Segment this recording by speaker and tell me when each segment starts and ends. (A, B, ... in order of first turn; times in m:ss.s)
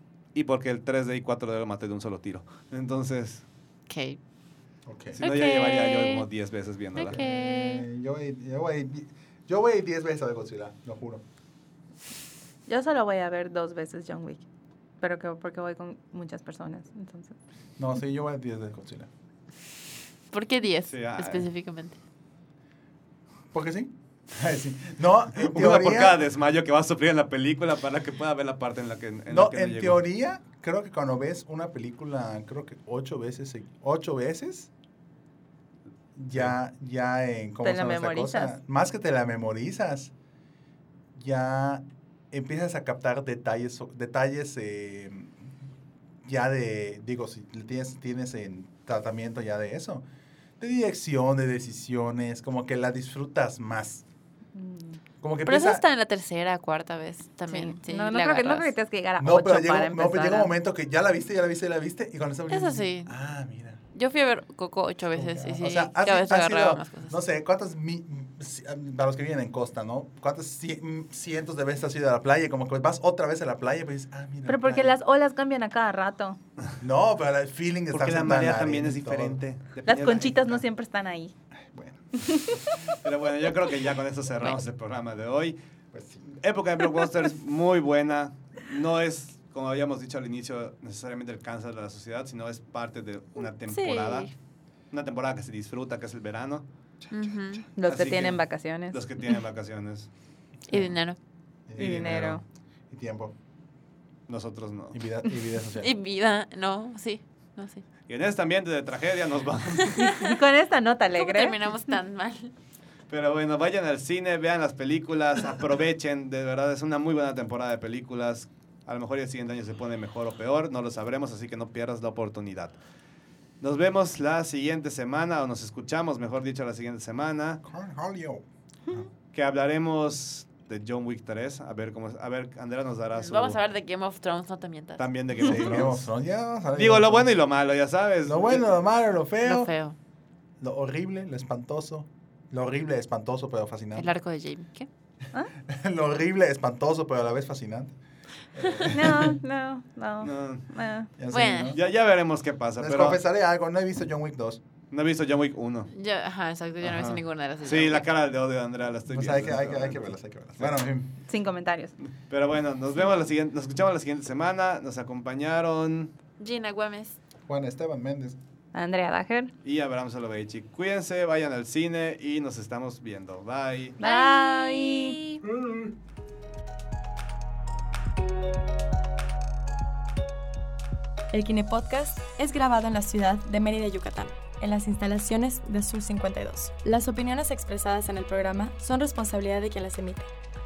0:00.3-0:03.4 A
0:03.9-0:04.2 B
0:04.9-0:05.2 C
0:05.2-0:06.3 B
0:05.2-0:07.2 A
0:07.0-0:07.9 B
0:07.0-0:11.2 C
0:12.7-0:14.4 D
0:15.0-0:17.4 D
0:17.8-0:19.1 C
0:20.3-0:22.0 B
0:20.9-0:21.5 A
0:23.5-0:26.2 C
0:25.4-0:30.0 A
0:29.3-0:34.7 C
0:36.2-0:40.1 C
0:37.6-0:38.6 D
0:41.2-0:45.4 C
0:46.2-0:50.0 C
0:50.6-0:54.0 C
0:54.6-0:55.0 D
0:55.2-0:55.8 C
0:55.5-0:58.7 B
0:57.5-1:00.5 D
0:59.2-1:03.8 C
1:02.5-1:03.1 B
1:03.9-1:07.2 B
1:05.1-1:15.0 C
1:14.5-1:16.4 D
1:16.8-1:19.4 C
1:17.9-1:20.6 A
1:19.9-1:21.3 D
1:21.7-1:22.9 C
1:22.2-1:23.0 D
1:23.0-1:25.6 A
1:25.9-1:26.4 C
1:26.4-1:34.3 A
1:33.6-1:34.3 B
1:34.9-1:36.7 A
1:37.0-1:37.6 C
1:37.1-1:37.7 B
1:37.8-1:39.0 D
1:37.9-1:40.1 A
1:40.7-1:41.2 B
1:41.7-1:43.3 C
1:41.8-1:42.3 A
1:41.8-1:42.4 D
1:44.3-1:45.0 A
1:44.9-1:45.9 C
1:45.6-1:47.8 B
1:48.1-1:50.0 A
1:49.8-1:50.4 B
1:50.0-1:51.6 D
1:51.2-1:52.5 B
1:53.1-2:02.8 A
2:03.6-2:07.6 A
2:07.6-2:09.1 C
2:09.3-2:13.6 A
2:13.1-2:15.9 B
2:15.0-2:16.1 A
2:15.4-2:17.3 C
2:16.7-2:18.7 A
2:18.2-2:19.7 C
2:19.4-2:20.0 B
2:20.6-2:24.1 C
2:24.0-2:24.9 B
2:25.6-2:28.0 C
2:28.6-2:29.4 C
2:28.8-2:31.1 D
2:30.2-2:30.7 A
2:31.2-2:31.8 C
2:31.3-2:31.8 B
2:31.7-2:33.2 A
2:32.8-2:34.6 C
2:34.9-2:35.9 A
2:35.9-2:38.1 B
2:36.8-2:40.0 A
2:39.1-2:41.1 C
2:41.3-2:41.9 D
2:42.3-2:46.2 A
2:46.4-2:47.2 B
2:47.5-2:48.4 C
2:48.7-2:49.5 D
2:49.6-2:54.0 A
2:54.0-2:55.2 D
2:54.0-2:55.4 B
3:01.3-3:10.3 E